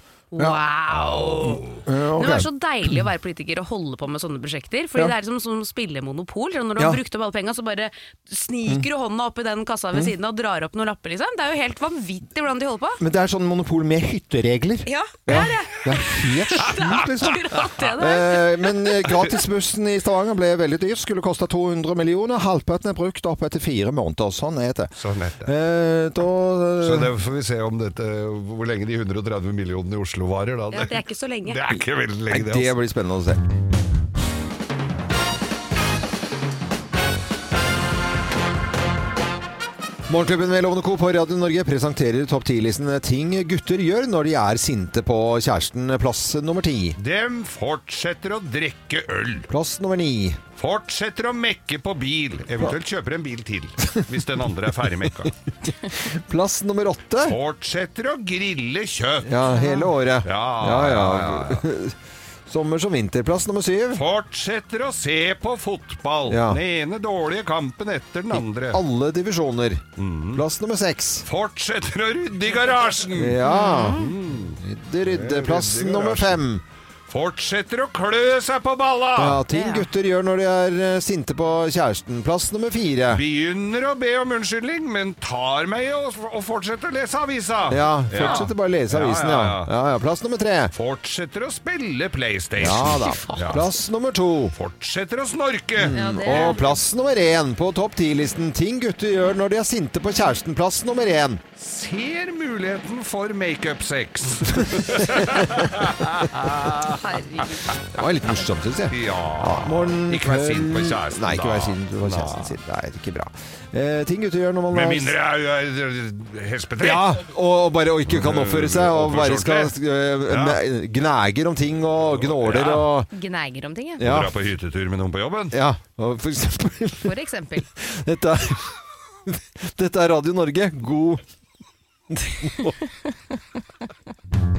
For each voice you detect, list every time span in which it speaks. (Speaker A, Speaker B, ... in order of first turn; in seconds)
Speaker A: 0.3-13.0, 14.8-19.0, 30.7-31.6, 59.5-59.9, 73.4-74.1, 79.5-79.9, 88.2-88.5, 92.9-93.6, 95.9-96.7, 106.9-107.6, 123.1-124.1, 127.0-127.7
Speaker B: 0.9-1.8, 24.9-25.5, 26.8-32.8, 47.0-49.5, 50.6-55.3, 57.2-59.5, 60.2-61.6, 63.9-68.8, 70.0-70.4, 71.2-76.4, 77.1-79.4, 83.1-89.7, 90.7-93.7, 94.5-96.6, 101.6-107.8, 108.9-112.5, 114.7-117.2, 118.1-119.7, 120.3-120.6, 122.1-122.9, 124.0-125.5
Speaker C: 1.8-2.5, 13.0-17.4, 17.9-24.9, 25.4-27.1, 32.3-33.4, 40.1-47.0, 49.5-50.4, 55.9-57.4, 59.2-61.9, 62.5-64.0, 66.3-66.6, 68.3-71.2, 73.2-74.0, 74.6-76.6, 79.2-83.2, 87.7-90.7, 92.6-94.5, 95.8-101.4, 104.9-105.8, 107.9-115.1, 116.8-123.1, 124.0-124.3, 125.5-127.1, 127.8-128.7, 129.3-131.2, 132.2-132.7